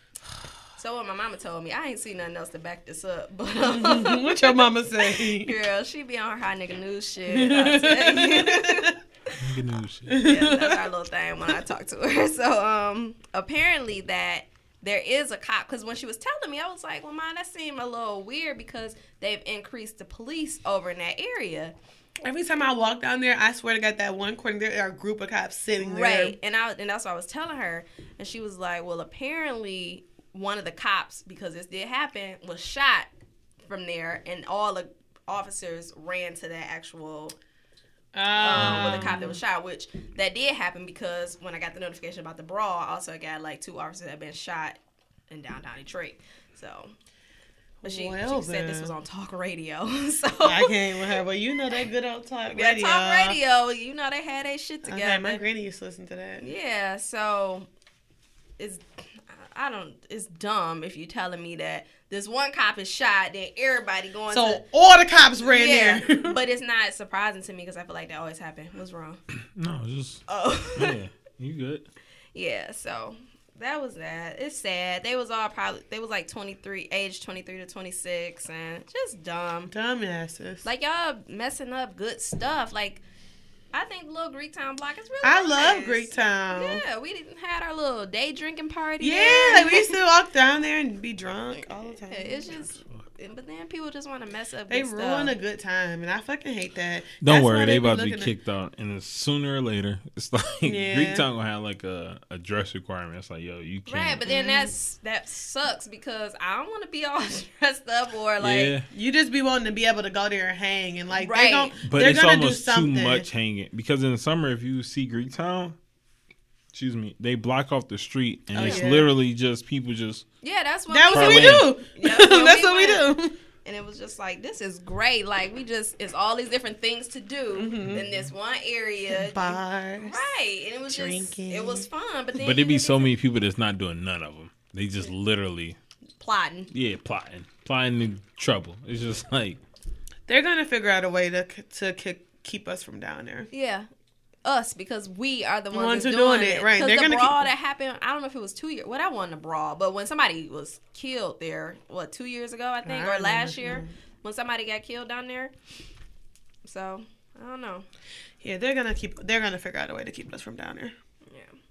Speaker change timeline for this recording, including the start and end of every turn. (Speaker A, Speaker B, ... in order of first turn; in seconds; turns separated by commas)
Speaker A: 0.8-9.3, Speaker B: 3.6-5.6, Speaker B: 7.3-8.9, Speaker C: 9.4-10.2, Speaker B: 10.1-10.8, Speaker A: 10.1-21.7, Speaker B: 22.2-26.4, Speaker A: 25.8-33.1, Speaker A: 33.6-37.4, Speaker B: 38.1-39.4, Speaker A: 38.3-44.8, Speaker C: 38.5-38.9, Speaker A: 45.3-46.9, Speaker B: 47.8-48.9, Speaker A: 47.8-51.1, Speaker B: 50.4-53.4, Speaker A: 52.5-55.4, Speaker B: 54.9-56.5, Speaker A: 56.4-57.7, Speaker A: 58.6-64.6, Speaker B: 64.3-66.3, Speaker A: 65.4-69.2, Speaker C: 69.5-70.2, Speaker A: 70.3-71.0, Speaker C: 70.7-71.8, Speaker A: 72.3-79.7, Speaker B: 79.7-80.6, Speaker A: 80.6-83.0, Speaker A: 83.7-89.9, Speaker B: 85.2-86.8, Speaker B: 89.0-92.6, Speaker A: 92.0-95.3, Speaker B: 94.7-98.3, Speaker C: 97.2-104.2, Speaker B: 100.6-101.2, Speaker A: 103.9-108.7, Speaker B: 104.2-104.7, Speaker C: 108.4-108.9, Speaker B: 108.9-113.3, Speaker A: 111.2-111.7, Speaker C: 111.8-115.7, Speaker C: 116.7-120.2, Speaker B: 118.5-119.1, Speaker A: 118.6-118.9, Speaker A: 120.4-123.1, Speaker B: 120.9-123.3, Speaker C: 121.1-121.7, Speaker A: 123.6-133.1, Speaker B: 127.5-128.0, Speaker B: 129.1-130.2, Speaker B: 130.9-131.9, Speaker C: 132.4-135.8, Speaker A: 136.2-136.7, Speaker C: 136.7-139.6, Speaker B: 140.3-143.5, Speaker A: 143.5-143.9, Speaker A: 144.4-155.5, Speaker B: 145.7-147.5, Speaker B: 152.8-153.9, Speaker A: 156.6-157.9, Speaker B: 158.4-160.9, Speaker A: 161.3-161.5